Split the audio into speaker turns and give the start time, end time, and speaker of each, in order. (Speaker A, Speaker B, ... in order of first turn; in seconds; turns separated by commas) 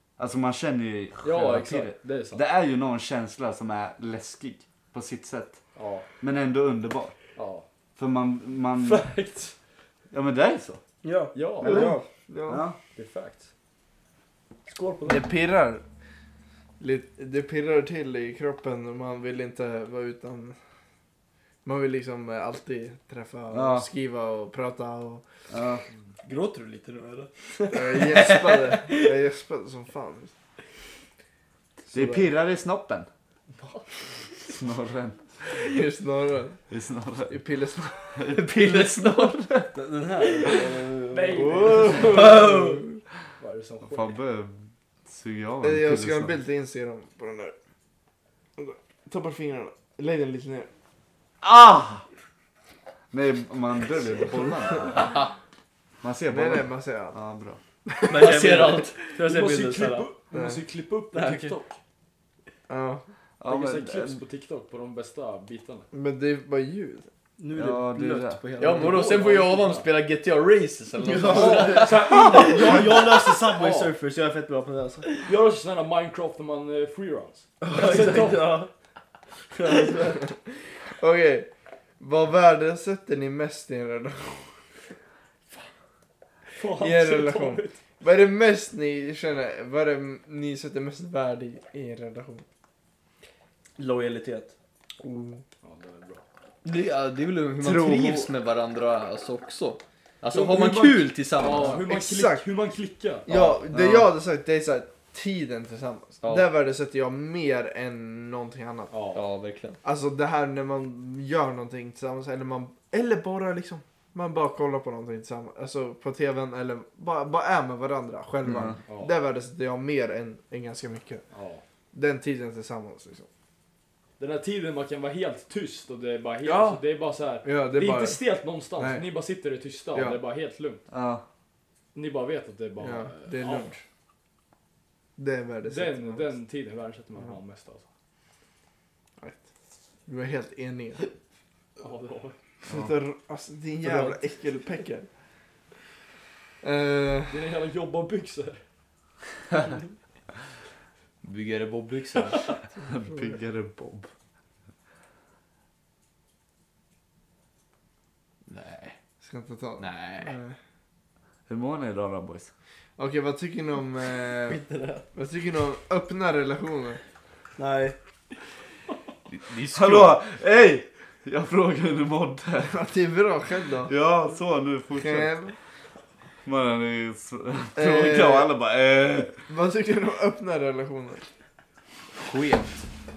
Speaker A: 0.2-5.6, Speaker B: 1.2-2.4, Speaker B: 5.7-6.1, Speaker A: 6.2-7.2, Speaker B: 7.4-7.7, Speaker A: 8.0-9.1, Speaker B: 8.8-9.5, Speaker A: 10.1-10.8, Speaker C: 11.0-12.1, Speaker B: 11.3-11.9, Speaker D: 11.6-12.6, Speaker A: 12.5-12.8, Speaker B: 12.9-13.5, Speaker B: 14.7-15.3, Speaker D: 15.0-15.8, Speaker D: 16.8-20.6, Speaker D: 21.6-25.2, Speaker A: 23.5-23.9, Speaker A: 25.5-25.8, Speaker C: 26.2-29.1, Speaker D: 27.7-30.3, Speaker D: 31.9-32.3, Speaker A: 31.9-33.1, Speaker B: 33.6-33.9, Speaker A: 34.4-35.6, Speaker D: 35.5-36.6, Speaker A: 36.7-37.4, Speaker D: 37.3-38.4, Speaker A: 38.1-39.5, Speaker C: 38.8-39.0, Speaker C: 39.7-42.8, Speaker B: 41.1-42.5, Speaker D: 41.3-43.0, Speaker B: 43.4-44.2, Speaker A: 43.8-46.4, Speaker D: 45.6-47.5, Speaker D: 48.6-50.7, Speaker A: 51.4-52.0, Speaker A: 53.1-55.2, Speaker E: 55.0-55.3, Speaker A: 56.0-57.6, Speaker D: 56.3-57.2, Speaker D: 57.9-58.7, Speaker E: 58.1-58.9, Speaker C: 58.1-60.1, Speaker B: 59.1-61.8, Speaker D: 60.3-60.6, Speaker C: 61.1-61.6, Speaker D: 62.7-63.0, Speaker A: 63.4-64.2, Speaker B: 63.4-65.9, Speaker D: 65.9-67.1, Speaker C: 67.4-69.5, Speaker A: 67.5-68.4, Speaker E: 68.6-72.8, Speaker B: 68.8-69.9, Speaker C: 71.0-75.2, Speaker B: 71.2-73.9, Speaker B: 75.2-78.6, Speaker C: 77.6-78.7, Speaker C: 79.5-80.3, Speaker D: 80.0-81.5, Speaker D: 82.0-84.5, Speaker B: 86.6-87.8, Speaker D: 86.8-92.4, Speaker C: 93.8-94.5, Speaker D: 95.0-95.4, Speaker B: 95.6-96.2, Speaker E: 96.6-101.8, Speaker A: 97.6-98.1, Speaker B: 100.3-103.3, Speaker D: 101.5-102.4, Speaker D: 103.3-109.0, Speaker E: 103.3-103.6, Speaker A: 103.7-104.1, Speaker E: 106.2-106.5, Speaker B: 108.9-109.2, Speaker E: 109.1-109.8, Speaker D: 109.8-121.2, Speaker A: 118.5-118.8, Speaker B: 118.9-119.2, Speaker B: 121.3-121.6, Speaker D: 121.9-123.3, Speaker B: 124.2-130.8, Speaker D: 126.4-126.8, Speaker D: 127.4-128.2, Speaker D: 128.8-129.1, Speaker D: 129.9-130.2, Speaker A: 130.9-131.2, Speaker B: 131.9-133.8, Speaker D: 132.8-133.8, Speaker D: 135.2-136.2, Speaker B: 135.6-137.8, Speaker D: 139.2-139.5, Speaker D: 140.1-141.0, Speaker B: 141.8-142.4, Speaker D: 142.6-145.1, Speaker A: 142.7-142.9, Speaker C: 143.8-144.2, Speaker D: 146.6-147.4, Speaker B: 147.3-148.6, Speaker E: 151.2-152.5, Speaker B: 152.2-152.5, Speaker A: 152.8-154.1, Speaker D: 153.0-153.4, Speaker E: 158.4-158.9, Speaker D: 159.2-160.6, Speaker E: 159.8-160.4, Speaker A: 161.5-162.5, Speaker D: 163.0-164.6, Speaker C: 164.5-165.0, Speaker D: 165.1-167.0, Speaker C: 167.6-167.9, Speaker E: 169.3-170.2, Speaker A: 169.7-172.8, Speaker D: 172.6-173.9, Speaker A: 173.9-175.3, Speaker D: 174.9-175.5, Speaker A: 176.4-179.3, Speaker D: 177.8-178.5, Speaker D: 179.4-181.2, Speaker E: 182.2-182.9